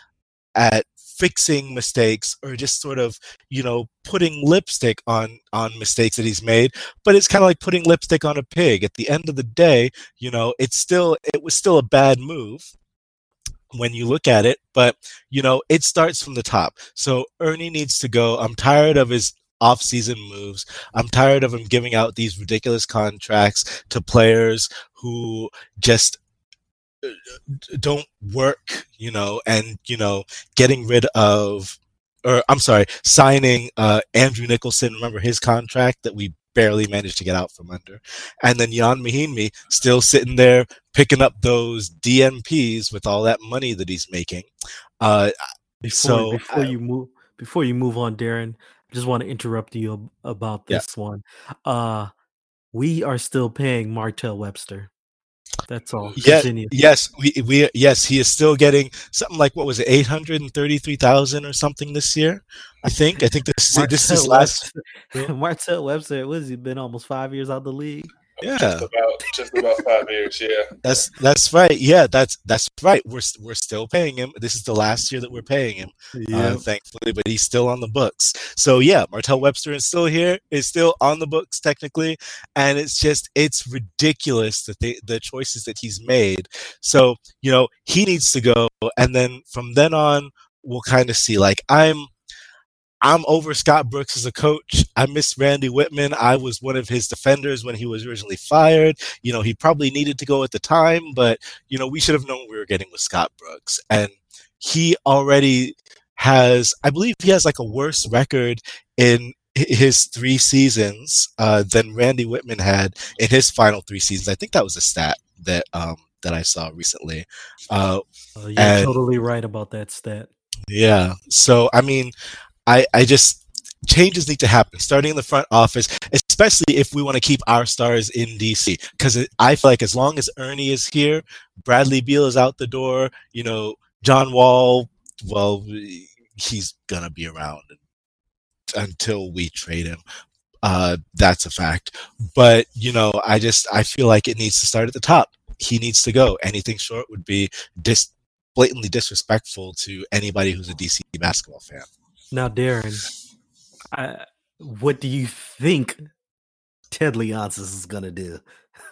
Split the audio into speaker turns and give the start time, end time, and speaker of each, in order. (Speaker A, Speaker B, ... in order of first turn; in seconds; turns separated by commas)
Speaker A: 0.6-12.7, Speaker A: 13.7-26.2, Speaker A: 27.0-44.5, Speaker A: 45.0-45.3, Speaker B: 45.8-52.1, Speaker A: 45.9-46.7, Speaker B: 52.7-54.9, Speaker B: 55.7-56.7, Speaker A: 56.1-65.3, Speaker B: 63.7-68.1, Speaker A: 68.4-68.9, Speaker C: 68.4-70.8, Speaker A: 70.8-92.1, Speaker B: 76.1-76.6, Speaker A: 93.0-118.0, Speaker B: 118.4-120.3, Speaker A: 118.6-119.0, Speaker A: 120.7-122.1, Speaker A: 122.7-137.8, Speaker A: 138.7-140.0, Speaker A: 140.6-151.9, Speaker B: 152.3-153.1, Speaker B: 153.9-156.1, Speaker B: 156.9-158.4